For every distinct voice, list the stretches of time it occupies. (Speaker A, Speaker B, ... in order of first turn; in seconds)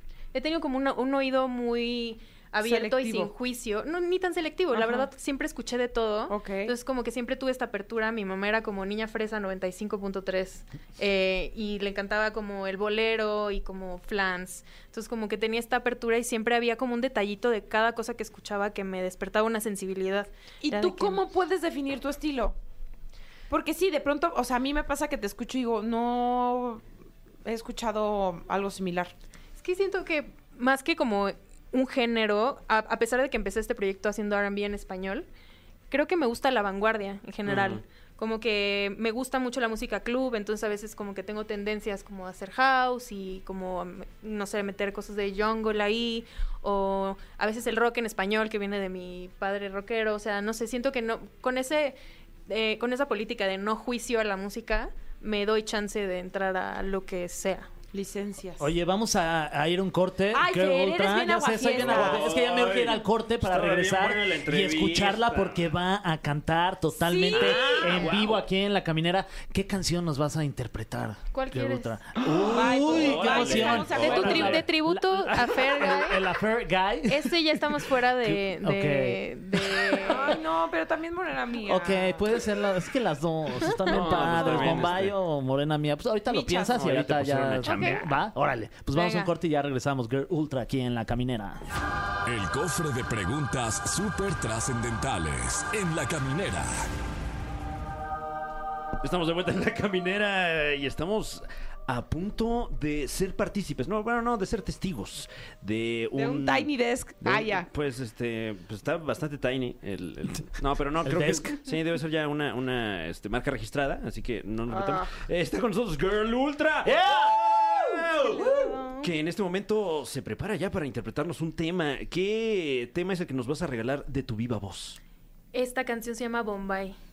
Speaker A: 0.3-21.2, 29.6-35.3, 35.9-52.0, 52.5-57.7, 71.3-72.0, 74.0-76.3, 77.1-80.4, 87.6-88.0, 89.0-89.3, 125.5-127.0
Speaker B: 2.6-3.3, 4.7-5.1, 6.3-6.7, 20.6-22.6, 23.5-26.8, 27.4-29.1, 57.9-58.7, 60.3-62.4, 67.0-68.1, 72.5-74.6, 80.0-82.2, 86.3-86.8, 106.2-107.7, 114.7-115.1, 118.3-119.1
Speaker C: 37.5-37.8, 61.7-65.7, 67.3-68.4, 72.4-74.6, 83.9-85.1, 86.8-88.1, 99.0-125.0
Speaker D: 58.6-80.2, 81.7-91.6, 111.0-111.6, 116.8-117.4
Speaker E: 92.3-96.9